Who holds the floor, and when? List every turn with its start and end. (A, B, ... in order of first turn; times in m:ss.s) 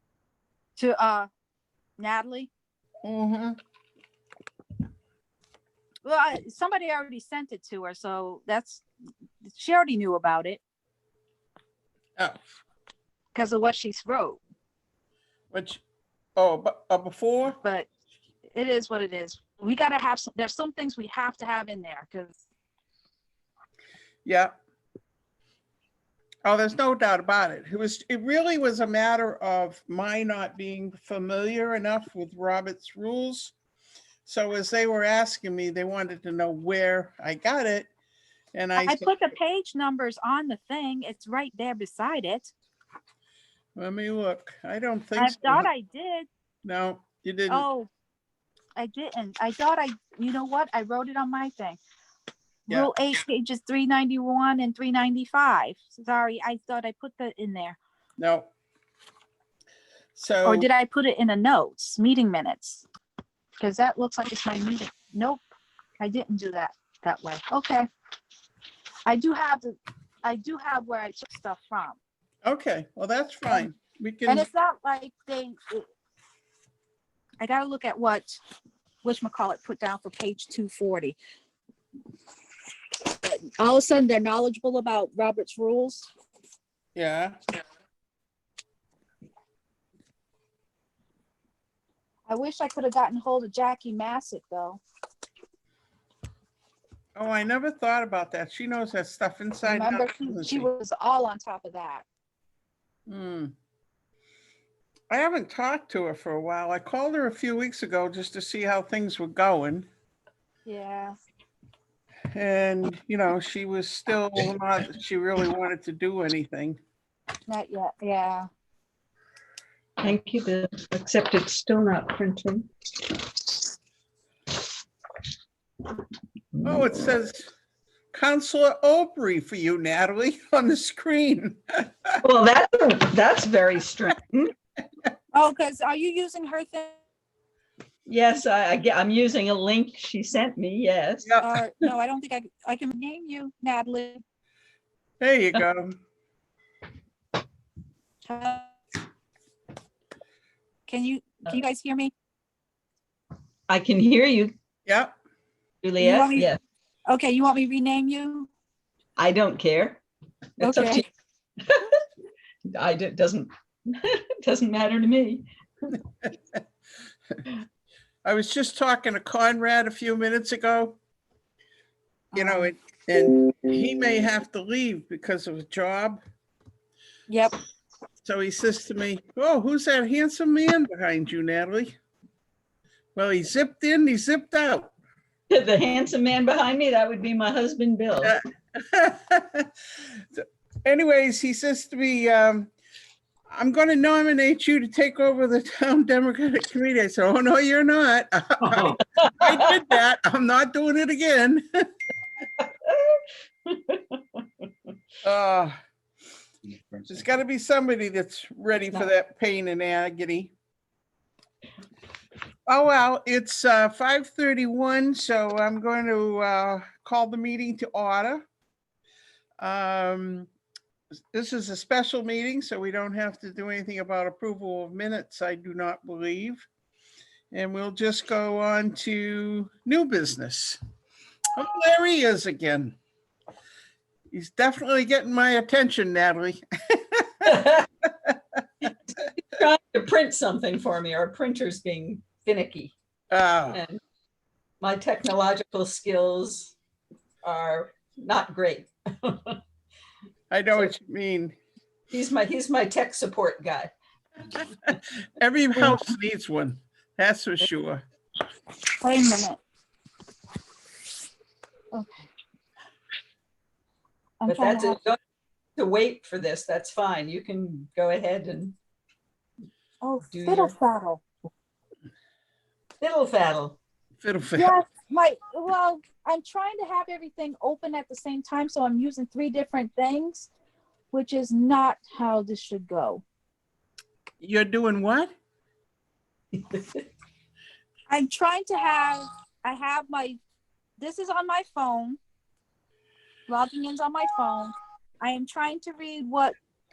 0:00.8-0:01.3 A
0:02.0-0:02.5 A
0:03.0-0:03.6 B
0:06.0-0:08.8 A
0:09.4-0:10.6 A
0:13.4-0:14.4 A
0:15.5-0:15.8 B
0:16.4-0:17.6 B
0:18.5-0:22.4 A
0:24.2-0:24.5 B
0:26.4-0:33.5 B
0:34.2-0:37.9 B
0:38.5-0:39.1 B
0:38.8-0:42.5 A
0:43.8-0:45.7 B
0:45.2-0:46.3 A
0:46.6-0:47.7 B
0:47.5-0:47.9 A
0:48.8-0:51.8 A
0:52.7-0:57.8 A
0:58.2-0:58.5 B
1:00.2-1:00.7 B
1:00.4-1:02.8 A
1:03.6-1:05.4 A
1:06.0-1:07.9 A
1:09.1-1:12.0 A
1:12.4-1:14.5 B
1:14.3-1:15.9 A
1:17.4-1:18.4 A
1:19.0-1:21.2 A
1:23.0-1:26.1 A
1:27.0-1:27.4 B
1:32.3-1:34.8 A
1:37.2-1:40.7 B
1:39.6-1:42.1 A
1:43.1-1:43.5 B
1:45.1-1:49.9 B
1:50.7-1:51.2 A
1:52.3-1:56.8 B
1:57.5-1:58.5 A
2:00.0-2:02.7 C
2:06.6-2:07.5 B
2:08.1-2:12.2 B
2:12.2-2:14.5 C
2:15.3-2:17.0 A
2:18.1-2:21.3 C
2:21.2-2:21.6 B
2:21.4-2:24.2 A
2:25.2-2:26.0 B
2:28.3-2:28.7 A
2:30.9-2:32.1 A
2:33.7-2:34.5 C
2:34.9-2:35.2 B
2:35.8-2:36.6 C
2:36.0-2:36.5 A
2:37.1-2:38.5 A
2:39.2-2:40.0 C
2:40.6-2:41.1 C
2:40.6-2:41.0 A
2:41.6-2:42.0 C
2:42.7-2:46.0 C
2:48.2-2:51.0 B
2:52.3-2:52.7 A
2:52.4-2:56.2 B
2:57.3-2:57.6 A
2:58.2-3:02.0 B
3:03.2-3:04.9 B
3:05.5-3:08.4 C
3:08.2-3:09.7 B
3:10.4-3:12.7 B
3:13.5-3:21.8 B
3:19.1-3:19.6 C
3:22.6-3:24.6 C
3:25.2-3:25.8 B
3:27.0-3:30.5 B
3:32.7-3:38.4 B
3:39.6-3:40.5 B
3:41.3-3:46.7 B
3:47.5-3:50.8 B
3:51.6-3:53.0 B
3:54.3-3:57.7 B
3:57.4-3:57.9 C
3:59.1-4:02.9 C
4:03.3-4:03.8 B
4:03.7-4:04.0 C
4:04.8-4:06.8 C
4:07.4-4:09.6 C
4:10.5-4:11.6 B
4:12.1-4:13.9 C
4:14.8-4:18.0 B
4:19.0-4:19.6 A
4:21.9-4:22.3 A
4:24.4-4:25.0 A
4:24.5-4:25.2 C
4:25.8-4:28.8 C
4:30.0-4:31.2 A
4:30.3-4:30.8 C
4:33.0-4:33.8 C
4:34.2-4:34.8 B
4:34.6-4:40.5 A
4:41.1-4:43.2 A
4:44.4-4:45.3 B
4:46.5-4:47.0 C
4:48.1-4:50.4 A
4:51.0-4:52.2 A
4:53.5-4:56.6 A